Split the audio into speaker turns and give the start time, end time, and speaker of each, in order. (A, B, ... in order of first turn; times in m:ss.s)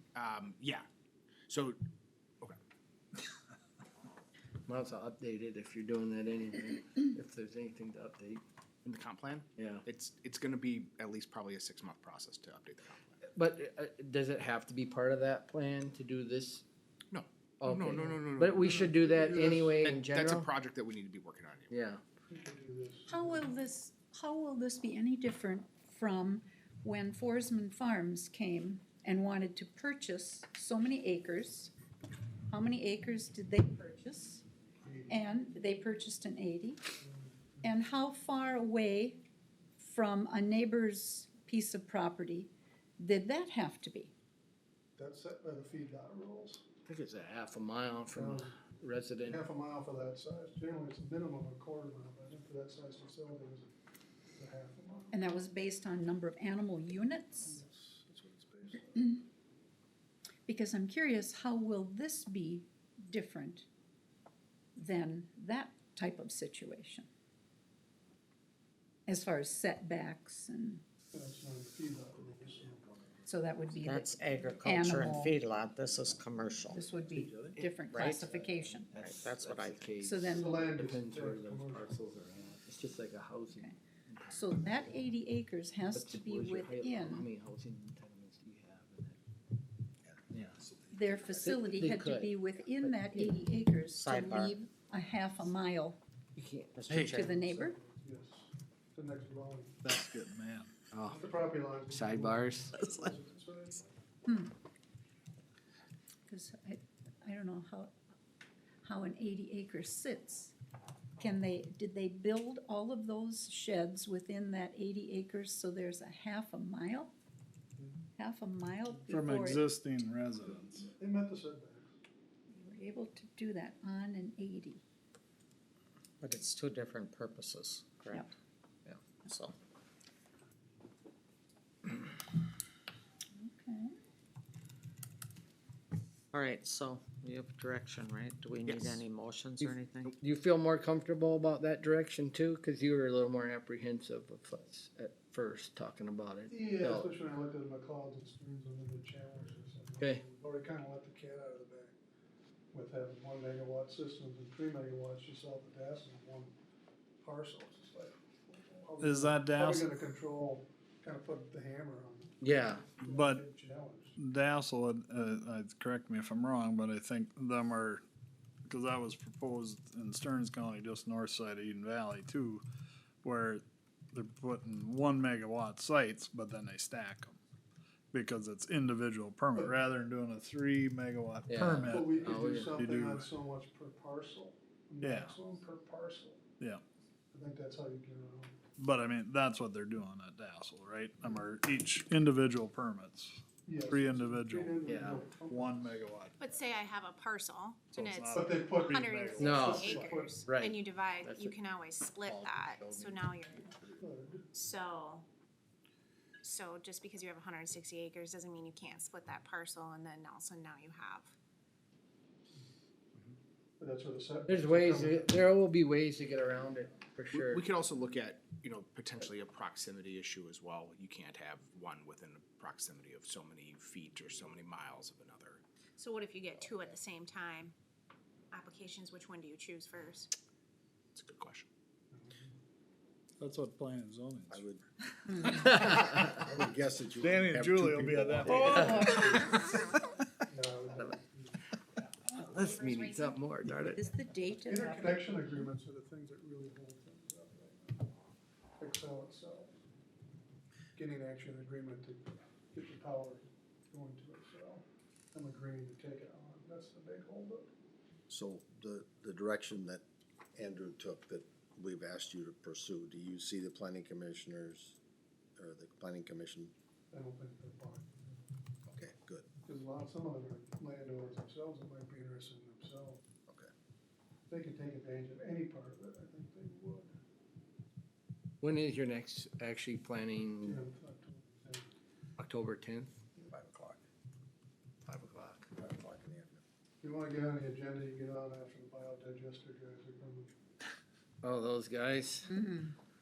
0:00.2-0:00.8 A
0:01.5-0:01.8 A
0:04.7-0:08.4 B
0:08.8-0:13.2 A
0:09.6-0:09.8 B
0:13.3-0:16.6 B
0:17.1-0:21.8 A
0:17.6-0:20.5 B
0:18.6-0:19.9 C
0:21.7-0:22.0 B
0:22.3-0:23.5 C
0:23.1-0:31.7 D
0:32.5-0:34.4 D
0:34.8-0:35.3 C
0:35.1-0:36.8 D
0:37.0-0:37.6 C
0:37.6-0:39.2 D
0:39.8-0:44.1 D
0:45.0-0:46.6 C
0:46.9-0:49.4 B
0:48.1-0:48.6 C
0:49.2-0:53.7 C
0:54.4-0:55.2 C
0:55.1-0:57.6 D
0:57.4-0:59.0 C
0:58.9-0:59.2 D
1:00.5-1:03.7 D
1:04.8-1:07.1 D
1:09.1-1:10.8 D
1:11.1-1:13.0 C
1:13.2-1:15.4 D
1:13.8-1:16.8 E
1:16.6-1:18.9 D
1:17.1-1:17.7 B
1:17.9-1:18.3 E
1:18.3-1:24.7 B
1:18.9-1:19.9 E
1:19.8-1:20.7 D
1:20.3-1:22.0 C
1:23.5-1:23.8 D
1:24.3-1:27.3 D
1:25.9-1:29.2 B
1:30.3-1:30.7 B
1:30.9-1:36.0 D
1:31.3-1:32.4 B
1:34.0-1:34.6 E
1:36.4-1:37.2 B
1:36.8-1:37.3 E
1:37.0-1:39.8 C
1:37.0-1:37.8 D
1:39.8-1:40.8 F
1:40.9-1:41.3 B
1:41.0-1:43.8 C
1:41.9-1:43.0 B
1:44.3-1:44.5 D
1:46.3-1:47.9 D
1:48.8-1:50.5 D
1:51.2-1:57.1 D
1:58.2-1:59.6 D
1:59.1-2:00.9 F
2:00.4-2:01.9 C
2:02.5-2:04.8 D
2:06.2-2:08.3 E
2:09.0-2:09.5 E
2:13.4-2:13.9 D
2:16.3-2:20.1 E
2:18.7-2:19.0 A
2:19.6-2:20.2 A
2:20.2-2:27.1 B
2:26.5-2:31.9 C
2:32.7-2:36.5 C
2:37.2-2:44.2 C
2:39.0-2:39.9 F
2:42.4-2:42.9 B
2:43.0-2:43.4 F
2:44.2-2:48.0 F
2:48.7-2:52.6 F
2:53.2-2:57.4 F
2:58.1-3:03.3 F
3:01.5-3:02.7 B
3:01.9-3:06.4 C
3:05.0-3:05.4 F
3:07.3-3:08.6 C
3:08.8-3:14.8 F
3:13.6-3:16.0 C
3:14.8-3:15.2 B
3:15.5-3:16.4 F
3:16.4-3:23.8 G
3:17.9-3:19.6 F
3:18.4-3:20.4 C
3:19.4-3:19.8 B
3:20.4-3:21.6 B
3:22.2-3:24.0 B
3:24.0-3:24.4 C
3:24.5-3:25.2 G
3:26.4-3:31.3 G
3:33.8-3:35.3 C
3:34.5-3:37.6 B
3:37.3-3:45.6 A
3:46.0-3:47.8 G
3:48.5-3:50.3 G
3:51.2-3:51.7 A
3:52.1-3:52.5 C
3:53.4-3:54.6 F
3:54.5-3:54.8 H
3:55.3-3:55.6 D
3:55.4-3:55.9 F
3:55.6-3:56.4 B
3:55.7-3:59.7 H
3:57.2-3:59.9 F
3:58.4-3:59.6 D
4:00.5-4:01.6 C
4:02.3-4:05.7 D
4:02.4-4:04.0 B
4:04.6-4:08.1 C
4:08.8-4:09.8 C
4:11.0-4:17.7 C
4:18.3-4:20.0 H
4:20.6-4:25.0 H
4:25.6-4:26.7 H
4:27.1-4:28.4 C
4:28.9-4:29.5 H
4:29.6-4:33.2 C
4:34.5-4:37.1 C
4:38.6-4:40.8 B
4:40.6-4:41.9 C
4:42.4-4:43.2 B
4:43.5-4:44.0 H
4:45.1-4:45.7 B
4:45.8-4:46.6 H
4:47.0-4:50.6 C
4:51.4-4:52.5 B
4:52.5-4:52.9 D